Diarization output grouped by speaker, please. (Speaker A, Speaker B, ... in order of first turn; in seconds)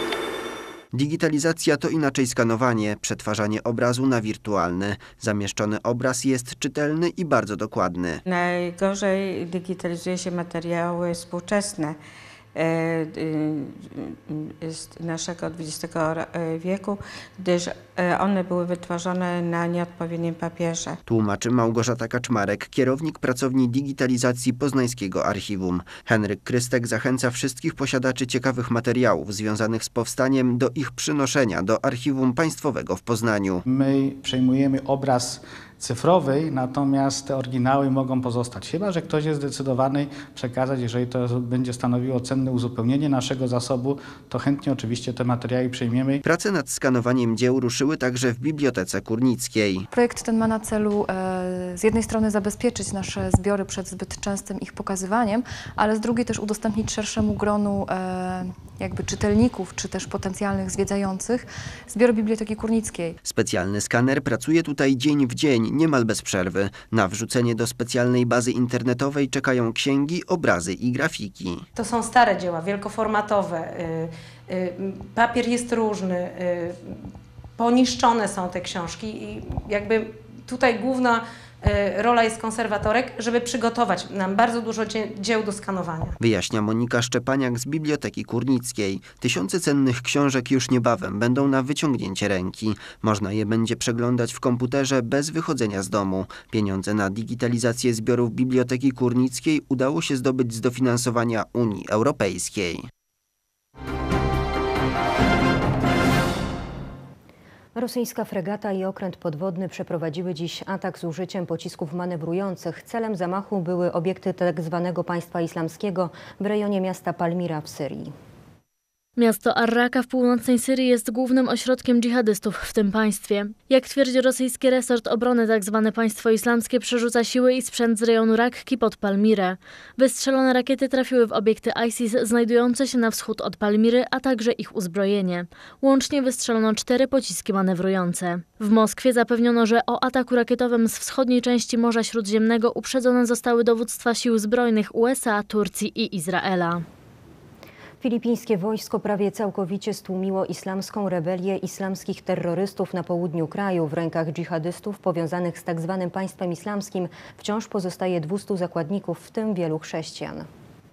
Speaker A: 0.9-8.2, 21.1-33.6, 46.2-49.9, 63.2-71.6, 86.2-102.9
Speaker B: 8.2-12.0, 12.5-21.0
Speaker C: 33.7-46.2
Speaker D: 49.9-63.1
Speaker E: 71.7-86.2
Speaker F: 107.7-118.1, 148.0-160.4
Speaker G: 119.2-146.8